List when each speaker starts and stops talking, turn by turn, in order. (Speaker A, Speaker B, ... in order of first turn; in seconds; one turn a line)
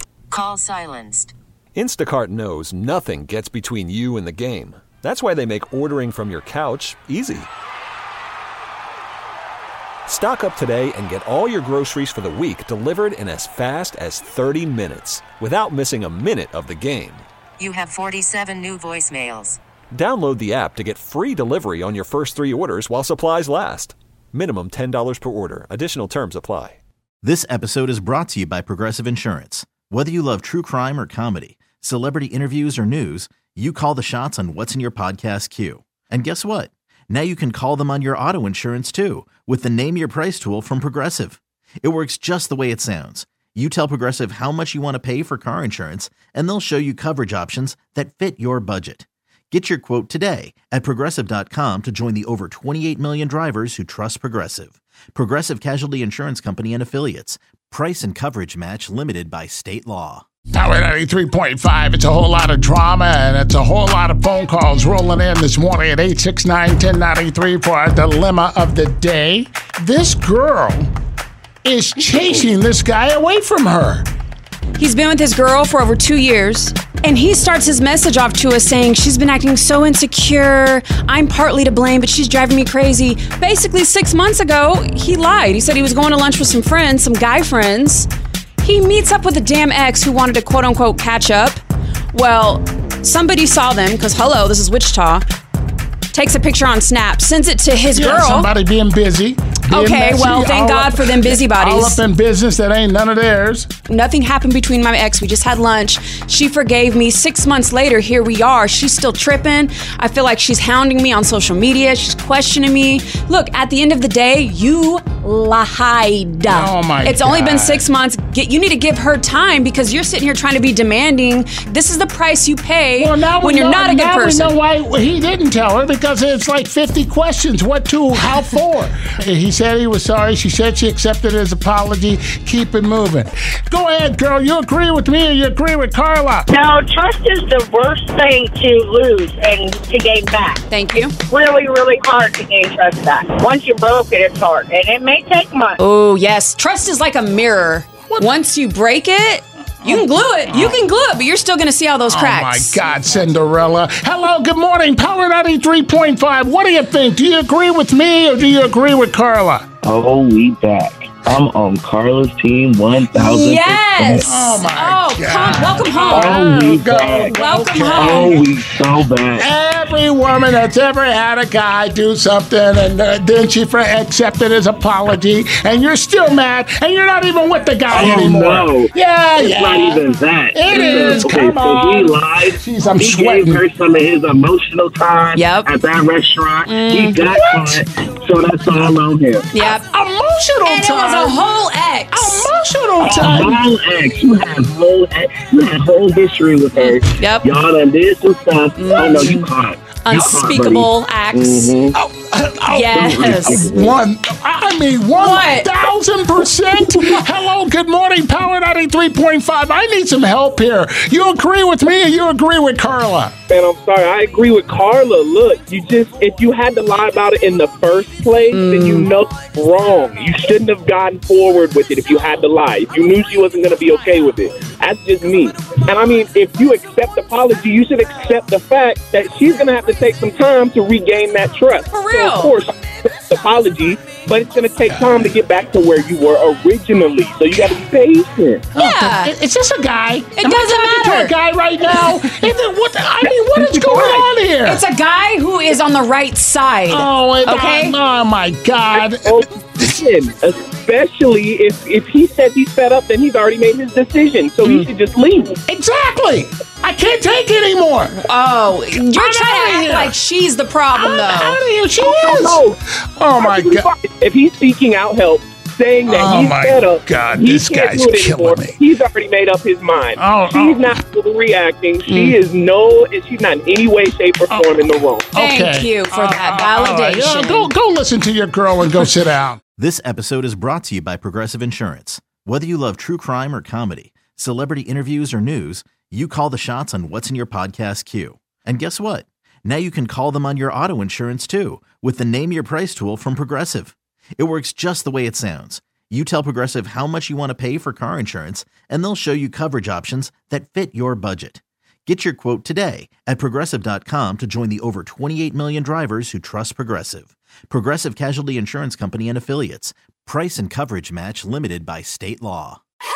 Speaker A: 0.3-1.3
Speaker B: 1.7-7.5
Speaker B: 10.1-17.2
Speaker A: 17.6-19.6
Speaker B: 19.9-26.8
Speaker C: 27.2-60.2
Speaker D: 60.5-70.9
Speaker D: 71.6-74.0
Speaker E: 74.8-88.1
Speaker E: 88.6-91.6
Speaker E: 92.1-95.2
Speaker E: 96.1-98.5
Speaker D: 97.9-103.7
Speaker E: 99.7-102.0
Speaker E: 103.9-124.5
Speaker D: 116.5-117.8
Speaker D: 123.0-136.5
Speaker F: 136.5-140.6
Speaker E: 140.7-141.1
Speaker F: 141.3-145.8
Speaker E: 145.8-152.8
Speaker D: 149.8-150.8
Speaker D: 152.1-159.7
Speaker G: 159.8-164.4
Speaker E: 163.1-166.5
Speaker D: 164.2-168.5
Speaker G: 166.0-167.3
Speaker E: 167.3-168.4
Speaker G: 167.9-169.5
Speaker D: 169.4-183.7
Speaker G: 177.9-189.7
Speaker E: 185.3-185.7
Speaker E: 186.7-187.2
Speaker D: 187.2-187.8
Speaker E: 189.5-189.8
Speaker D: 189.7-191.4
Speaker E: 190.6-192.5
Speaker D: 192.1-193.6
Speaker G: 193.0-201.9
Speaker E: 196.7-197.5
Speaker E: 198.8-199.5
Speaker E: 200.0-201.8
Speaker D: 201.9-213.3
Speaker E: 202.7-203.6
Speaker G: 202.9-204.0
Speaker E: 205.1-205.7
Speaker H: 213.5-238.7
Speaker E: 218.5-219.1
Speaker E: 231.9-232.6
Speaker D: 234.8-235.1
Speaker D: 238.7-244.8
Speaker E: 238.7-239.3
Speaker E: 240.4-241.3
Speaker H: 243.3-244.2
Speaker E: 244.6-248.0
Speaker D: 246.9-249.9
Speaker H: 248.9-255.6
Speaker D: 255.7-258.2
Speaker E: 258.2-261.6
Speaker D: 258.9-260.1
Speaker D: 260.9-263.9
Speaker H: 262.0-262.8
Speaker H: 263.4-275.3
Speaker D: 266.0-268.8
Speaker D: 270.1-271.0
Speaker E: 272.1-272.4
Speaker D: 274.5-279.6
Speaker E: 275.3-277.7
Speaker C: 279.8-312.8